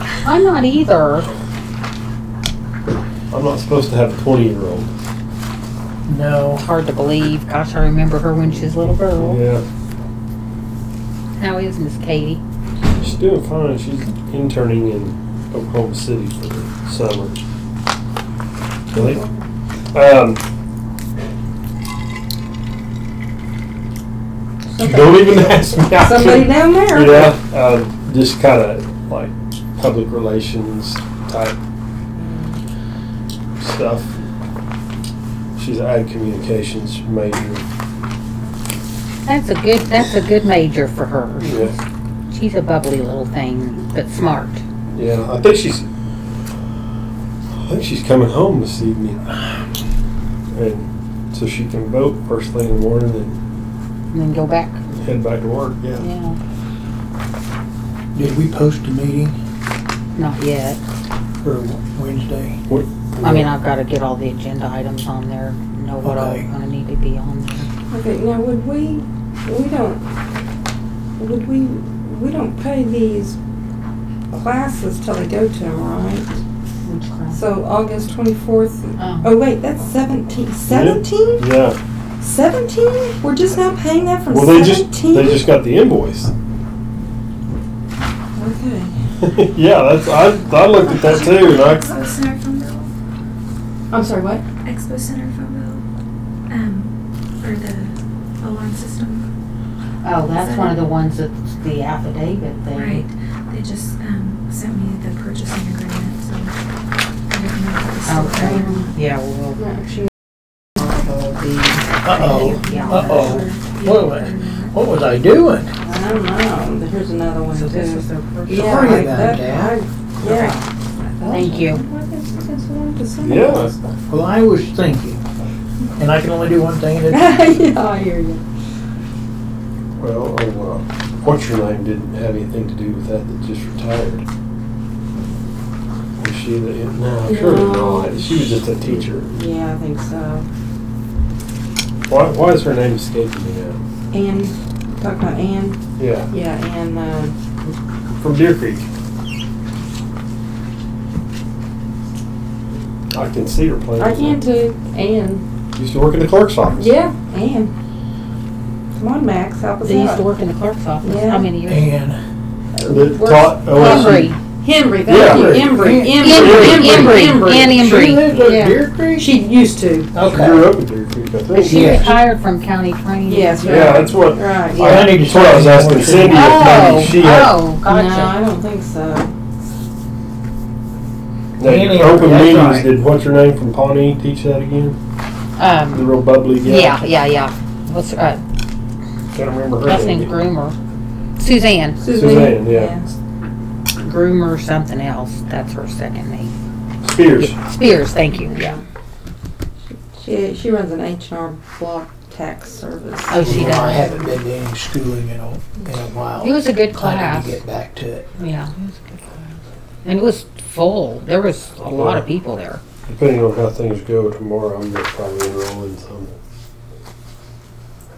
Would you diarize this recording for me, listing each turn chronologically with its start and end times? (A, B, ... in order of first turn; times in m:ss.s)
0:00.2-0:01.3 A
0:03.3-0:04.9 B
0:06.1-0:06.6 C
0:06.5-0:09.4 A
0:09.2-0:09.6 B
0:11.4-0:12.4 A
0:13.0-0:17.3 B
0:18.9-0:19.2 B
0:19.0-0:19.4 D
0:19.9-0:20.4 B
0:24.7-0:27.4 D
0:24.8-0:31.6 B
0:32.2-0:32.6 D
0:33.6-0:34.1 B
0:35.6-0:37.6 B
0:39.2-0:41.7 A
0:41.4-0:41.7 B
0:42.3-0:44.6 A
0:44.9-0:45.8 B
0:47.6-0:49.7 B
0:50.5-0:53.4 B
0:54.1-0:54.8 A
0:54.9-0:56.0 B
0:56.0-0:56.4 A
0:58.2-0:59.4 C
1:00.2-1:00.8 A
1:01.4-1:01.7 B
1:01.7-1:02.6 C
1:02.7-1:03.5 B
1:03.2-1:07.7 A
1:06.0-1:06.5 C
1:07.9-1:10.0 D
1:11.2-1:13.4 D
1:14.3-1:16.4 D
1:16.8-1:17.4 A
1:17.3-1:21.4 D
1:19.0-1:19.3 A
1:20.7-1:21.8 B
1:22.2-1:25.5 D
1:24.3-1:26.3 B
1:28.4-1:28.9 D
1:29.2-1:32.0 B
1:30.8-1:32.9 E
1:33.9-1:34.4 D
1:34.6-1:35.8 E
1:36.5-1:39.3 E
1:40.0-1:43.0 A
1:40.4-1:40.8 E
1:42.7-1:46.6 E
1:47.3-1:48.8 E
1:48.0-1:49.6 A
1:48.4-1:48.9 D
1:49.6-1:49.9 D
1:50.9-1:53.5 A
1:52.0-1:55.8 C
1:52.6-1:53.7 D
1:53.6-1:54.7 E
1:55.8-2:00.6 D
1:57.5-1:59.4 A
1:58.5-1:59.8 C
2:00.2-2:00.7 A
2:01.2-2:04.0 D
2:01.3-2:01.8 A
2:03.2-2:03.7 B
2:04.1-2:05.2 C
2:06.0-2:07.3 C
2:07.1-2:08.4 D
2:10.0-2:14.2 B
2:16.2-2:19.4 B
2:17.2-2:20.5 D
2:22.1-2:23.8 B
2:24.1-2:25.8 D
2:26.0-2:26.3 B
2:26.3-2:27.3 D
2:27.7-2:28.9 B
2:33.1-2:34.4 B
2:34.0-2:35.4 D
2:35.8-2:36.9 B
2:36.7-2:37.7 D
2:38.9-2:40.2 D
2:39.8-2:41.9 A
2:41.0-2:41.5 D
2:41.6-2:42.2 C
2:42.7-2:50.1 D
2:42.9-2:44.3 B
2:43.7-2:44.4 A
2:45.1-2:47.3 B
2:45.2-2:49.3 C
2:46.2-2:48.8 A
2:48.3-2:48.6 B
2:50.1-2:50.8 C
2:50.3-2:52.1 B
2:51.5-2:54.1 A
2:51.6-2:52.2 C
2:53.3-2:55.2 D
2:53.7-2:57.5 B
2:54.7-2:57.5 C
2:56.3-2:58.4 A
2:57.8-2:59.3 D
3:01.6-3:02.9 C
3:01.6-3:05.0 B
3:05.6-3:08.4 A
3:05.9-3:07.0 B
3:09.3-3:10.3 B
3:09.8-3:10.8 A
3:11.4-3:12.0 A
3:12.0-3:13.1 D
3:12.1-3:13.0 B
3:14.0-3:16.5 A
3:17.0-3:17.6 B
3:17.3-3:18.8 A
3:18.5-3:18.8 D
3:19.9-3:23.6 D
3:23.3-3:24.1 A
3:23.4-3:28.3 C
3:26.4-3:27.6 A
3:28.4-3:29.5 A
3:30.0-3:32.8 A
3:31.8-3:32.3 B
3:33.1-3:36.3 B